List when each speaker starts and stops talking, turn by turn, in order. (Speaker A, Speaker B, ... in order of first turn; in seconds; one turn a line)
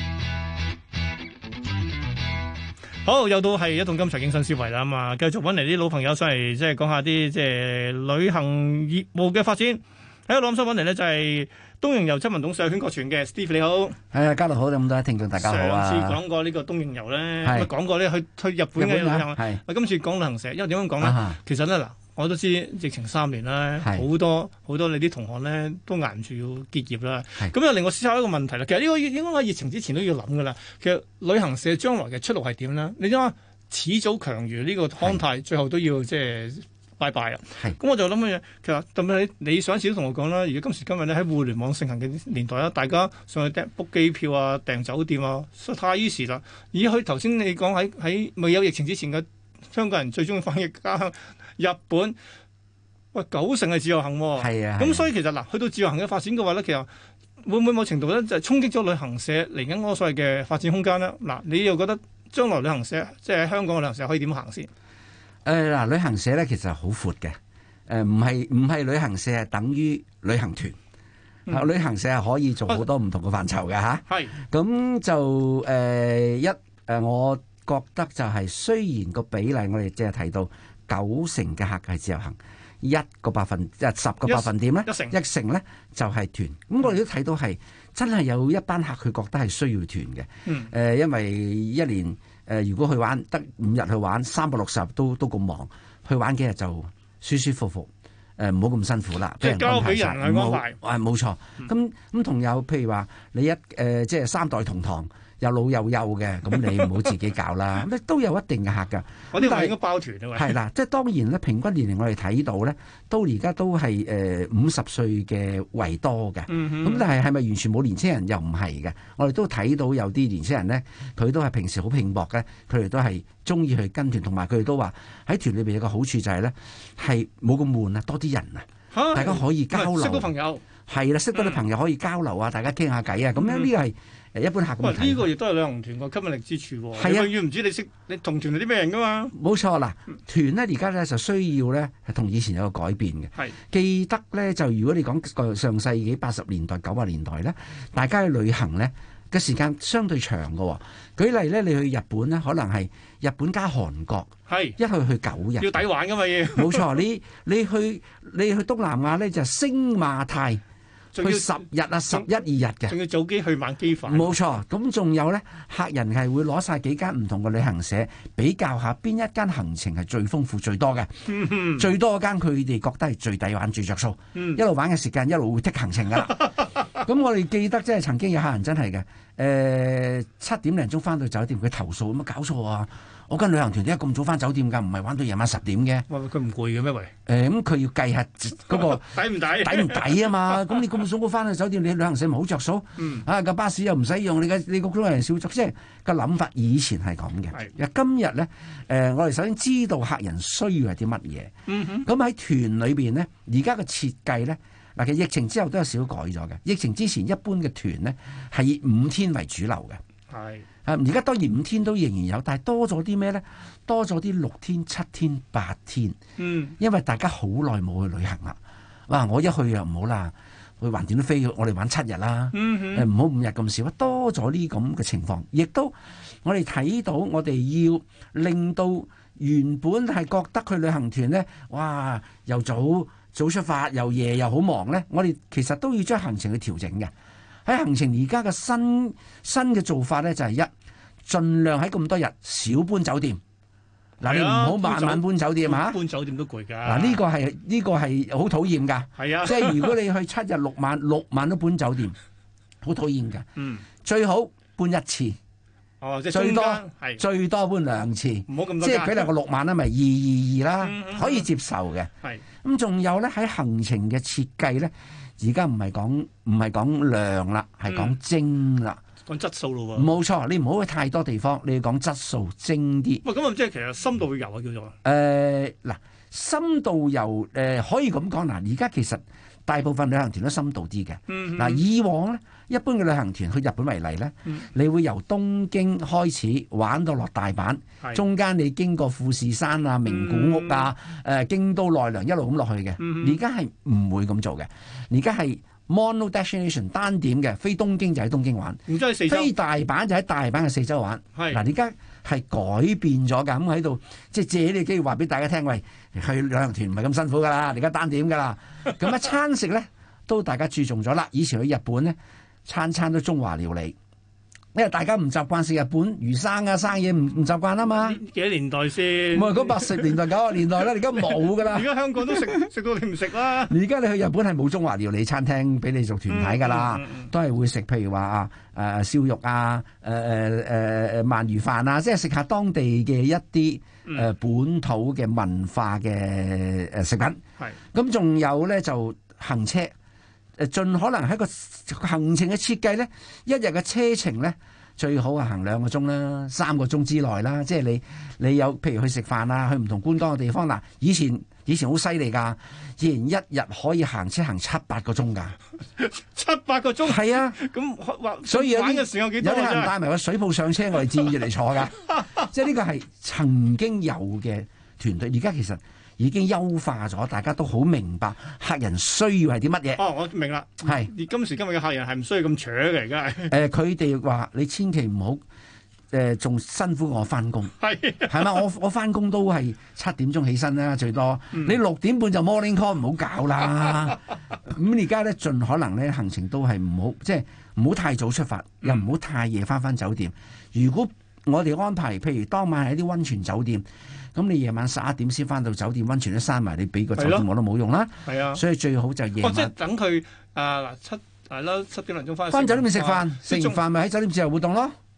Speaker A: 3.0-14.0
Speaker B: 14.1-16.2
Speaker A: 15.4-52.2
Speaker B: 17.4-17.7
Speaker B: 18.8-19.6
Speaker B: 21.0-21.4
Speaker A: 53.1-56.9
Speaker B: 54.4-55.1
Speaker A: 57.4-64.7
Speaker B: 65.5-67.4
Speaker B: 67.9-70.8
Speaker B: 71.5-109.8
Speaker A: 74.1-74.4
Speaker A: 84.3-85.2
Speaker A: 90.5-90.7
Speaker A: 99.4-100.8
Speaker A: 109.3-110.6
Speaker B: 110.3-130.3
Speaker A: 116.5-117.1
Speaker A: 128.9-130.6
Speaker B: 130.9-135.3
Speaker A: 131.3-131.6
Speaker A: 133.4-133.7
Speaker A: 134.8-139.3
Speaker B: 136.9-137.3
Speaker B: 139.3-155.8
Speaker A: 154.5-154.8
Speaker A: 155.6-157.0
Speaker B: 156.6-160.6
Speaker A: 161.1-162.3
Speaker B: 161.2-163.0
Speaker A: 162.9-164.4
Speaker B: 164.1-186.1
Speaker A: 171.3-171.9
Speaker A: 174.3-174.6
Speaker A: 186.1-187.1
Speaker B: 187.3-201.5
Speaker A: 188.7-190.8
Speaker A: 193.0-193.3
Speaker A: 201.7-202.1
Speaker B: 202.0-210.0
Speaker A: 210.3-210.7
Speaker B: 210.8-216.2
Speaker A: 216.4-216.8
Speaker B: 216.8-237.1
Speaker A: 222.5-223.1
Speaker B: 237.7-240.7
Speaker B: 241.3-243.4
Speaker B: 244.2-246.0
Speaker A: 244.2-247.2
Speaker B: 246.8-252.2
Speaker A: 249.2-250.0
Speaker B: 252.8-253.5
Speaker A: 253.6-253.9
Speaker B: 254.0-255.4
Speaker A: 256.0-257.2
Speaker B: 256.3-262.1
Speaker A: 258.5-259.3
Speaker A: 260.8-261.5
Speaker B: 262.6-269.0
Speaker A: 267.9-268.2
Speaker A: 269.3-270.1
Speaker B: 269.9-273.2
Speaker A: 273.2-274.9
Speaker B: 275.0-313.9
Speaker A: 281.3-281.8
Speaker A: 290.1-290.9
Speaker A: 293.0-293.4
Speaker A: 298.9-299.5
Speaker A: 301.3-301.6
Speaker B: 314.7-318.2
Speaker A: 317.9-320.2
Speaker B: 319.3-322.6
Speaker A: 321.2-323.8
Speaker B: 323.6-337.4
Speaker A: 326.3-327.3
Speaker B: 337.9-339.9
Speaker B: 340.6-355.6
Speaker A: 356.0-359.9
Speaker B: 357.0-357.6
Speaker B: 358.5-370.0
Speaker A: 361.9-362.5
Speaker A: 370.0-373.6
Speaker B: 370.8-371.1
Speaker B: 373.5-375.4
Speaker B: 376.1-377.7
Speaker A: 377.8-378.6
Speaker B: 378.3-399.7
Speaker A: 397.1-397.5
Speaker A: 398.2-398.6
Speaker A: 399.4-403.8
Speaker B: 402.5-404.9